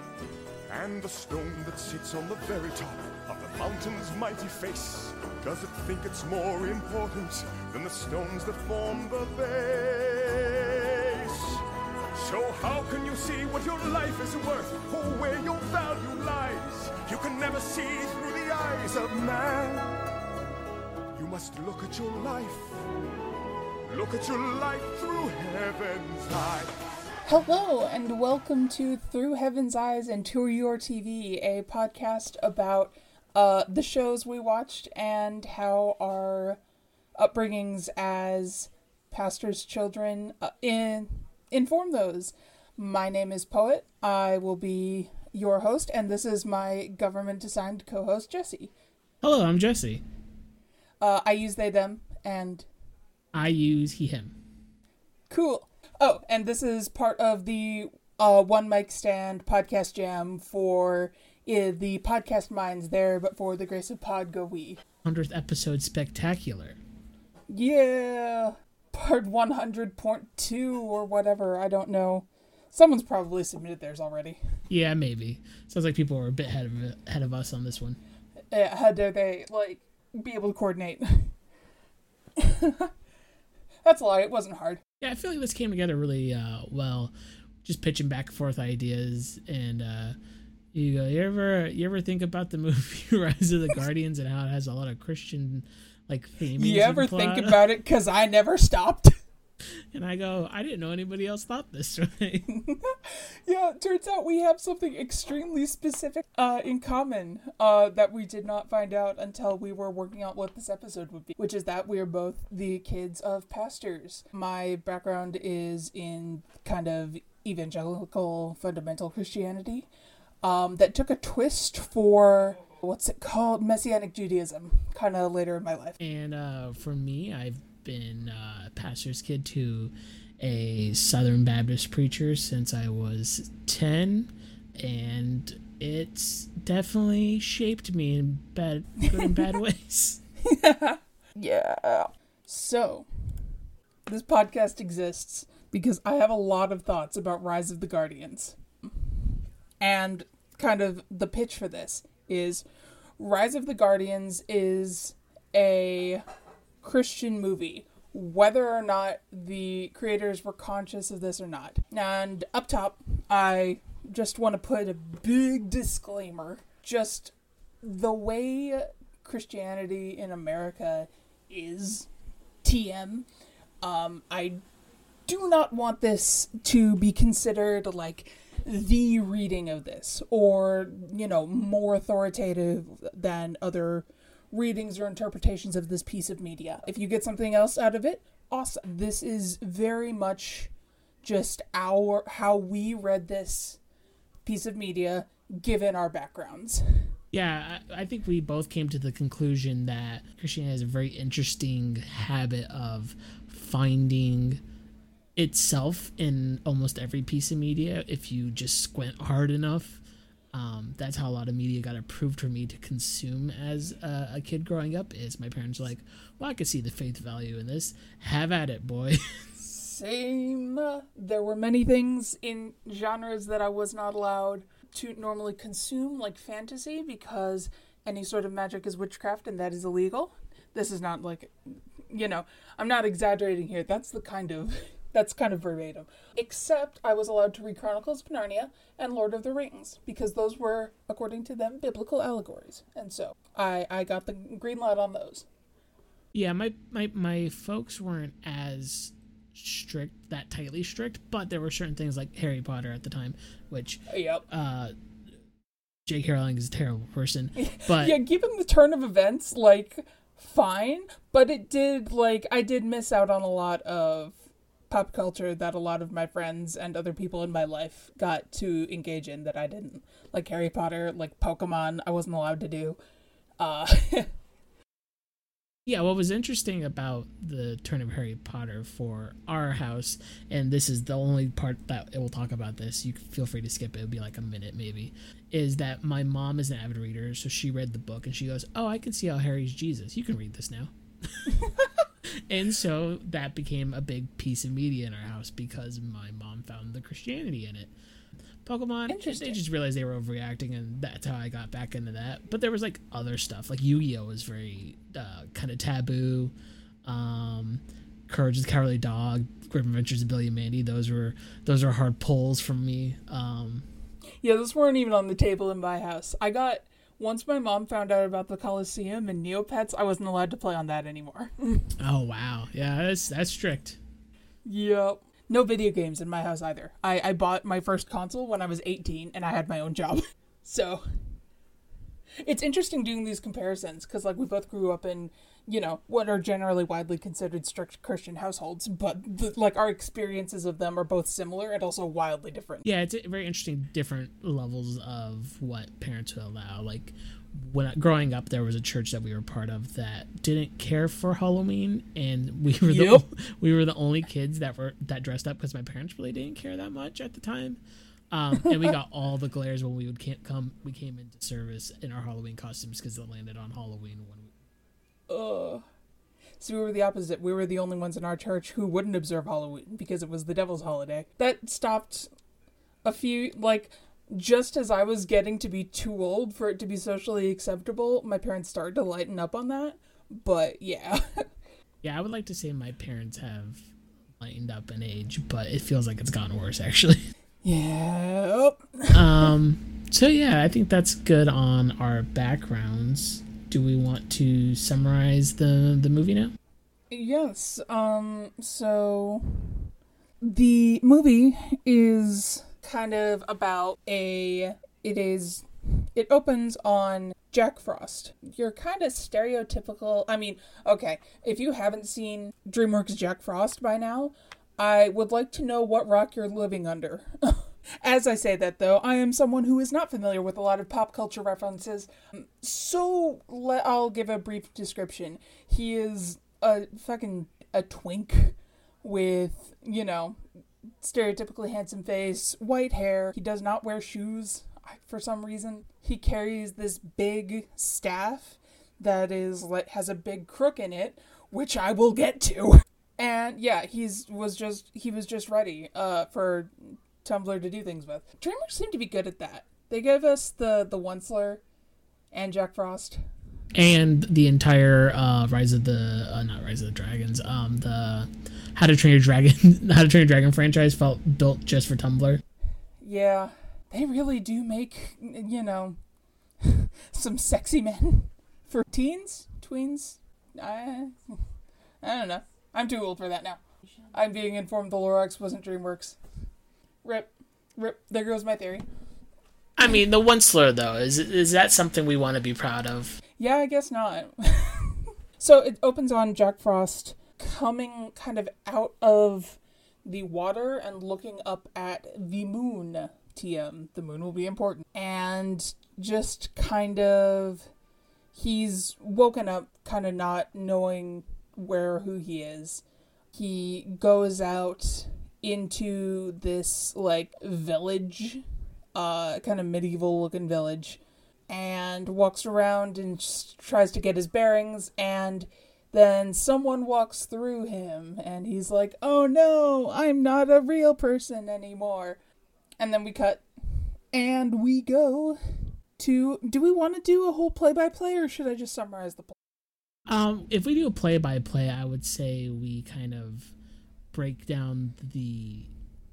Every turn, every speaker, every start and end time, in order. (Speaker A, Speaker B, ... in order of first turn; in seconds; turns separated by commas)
Speaker A: 0.7-11.6, Speaker A: 12.2-20.0, Speaker A: 21.1-22.9, Speaker A: 23.9-26.7, Speaker B: 27.3-36.6, Speaker B: 37.2-48.7, Speaker C: 49.2-50.0, Speaker B: 51.0-52.7, Speaker C: 53.3-54.4, Speaker B: 55.3-64.8, Speaker C: 65.0-66.8, Speaker B: 67.5-74.4, Speaker C: 74.7-78.0, Speaker B: 78.5-81.3, Speaker B: 82.4-82.9, Speaker B: 83.8-84.8, Speaker C: 85.0-87.1, Speaker C: 87.6-90.2, Speaker C: 90.7-97.6, Speaker B: 96.6-99.2, Speaker C: 99.9-102.5, Speaker B: 102.5-119.9, Speaker B: 120.4-126.0, Speaker C: 126.0-140.2, Speaker B: 139.0-139.6, Speaker B: 140.4-143.1, Speaker B: 144.1-149.1, Speaker B: 149.8-152.7, Speaker B: 153.2-156.2, Speaker B: 156.8-172.1, Speaker B: 172.6-173.3, Speaker B: 173.8-174.6, Speaker B: 175.3-190.7, Speaker B: 191.2-193.8, Speaker B: 194.5-197.1, Speaker C: 197.3-204.6, Speaker C: 205.4-219.2, Speaker B: 219.6-231.5, Speaker B: 232.1-245.5, Speaker C: 246.3-254.9, Speaker B: 254.1-254.4, Speaker C: 256.1-258.2, Speaker B: 257.6-273.0, Speaker B: 273.6-274.3, Speaker C: 275.9-291.7, Speaker C: 292.2-297.9, Speaker C: 298.6-306.5, Speaker B: 299.1-299.6, Speaker C: 307.0-313.9, Speaker B: 314.4-321.9, Speaker C: 322.0-324.0, Speaker B: 324.6-331.0, Speaker B: 332.4-342.9, Speaker C: 342.8-357.8, Speaker B: 352.9-353.2, Speaker C: 358.3-364.5, Speaker B: 365.3-365.8, Speaker B: 366.6-372.3, Speaker B: 373.0-381.4, Speaker C: 382.0-387.2, Speaker B: 387.6-389.5, Speaker C: 389.1-396.5, Speaker B: 397.1-399.9, Speaker B: 400.4-430.4, Speaker B: 431.0-451.6, Speaker B: 452.3-453.2, Speaker C: 453.7-462.4, Speaker B: 463.0-466.0, Speaker B: 466.6-471.4, Speaker B: 472.0-473.6, Speaker B: 474.1-476.2, Speaker B: 477.0-478.8, Speaker C: 479.8-483.2, Speaker B: 483.4-497.7, Speaker B: 498.3-502.8, Speaker B: 503.3-508.4, Speaker B: 508.9-522.2, Speaker B: 522.8-525.4, Speaker B: 526.0-529.3, Speaker C: 530.1-533.5, Speaker C: 534.1-535.7